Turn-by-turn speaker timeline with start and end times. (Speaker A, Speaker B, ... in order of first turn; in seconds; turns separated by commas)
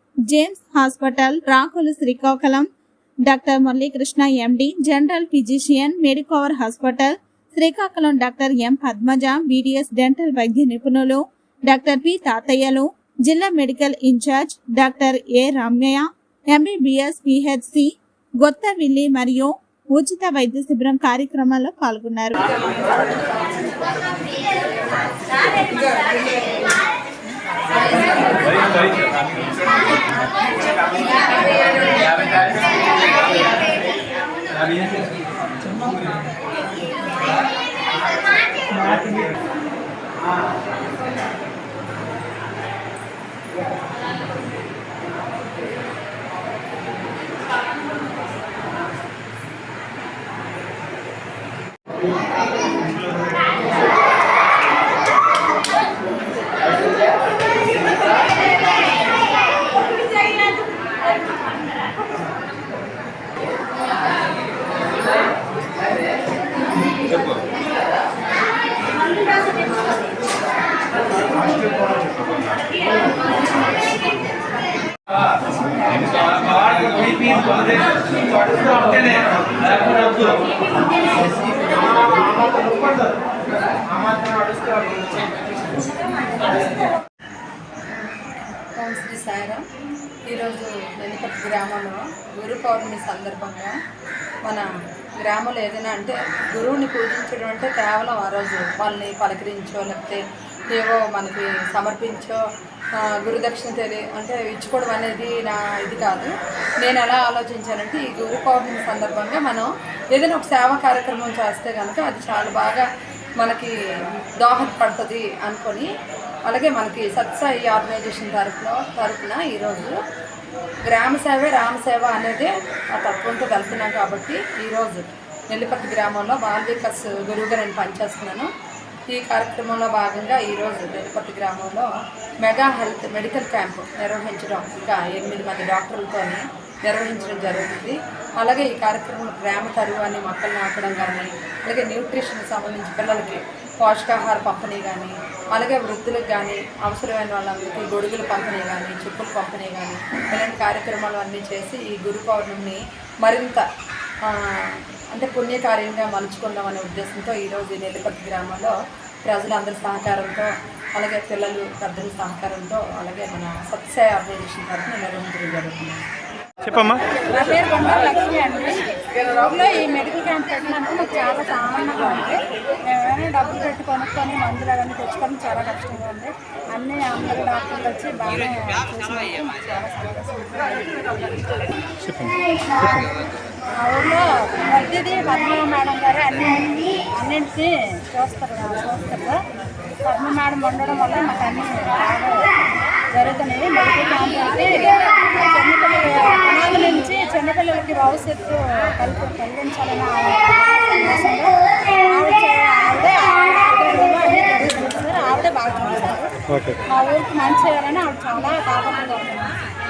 Speaker A: 0.3-2.7, Speaker A: 3.3-22.5, Speaker B: 22.7-23.4, Speaker B: 25.4-26.6, Speaker B: 27.7-28.8, Speaker C: 77.0-77.5, Speaker B: 88.7-89.6, Speaker B: 90.3-93.8, Speaker B: 95.2-100.2, Speaker B: 100.7-102.4, Speaker B: 103.0-112.9, Speaker B: 113.4-113.7, Speaker B: 114.4-115.9, Speaker B: 116.5-120.0, Speaker B: 120.9-128.5, Speaker B: 129.1-131.9, Speaker B: 132.4-153.6, Speaker B: 154.3-166.0, Speaker C: 166.7-167.0, Speaker D: 167.3-181.2, Speaker C: 182.0-183.1, Speaker D: 183.8-189.4, Speaker D: 190.0-192.5, Speaker D: 193.1-206.3, Speaker C: 206.5-206.8, Speaker D: 206.9-209.6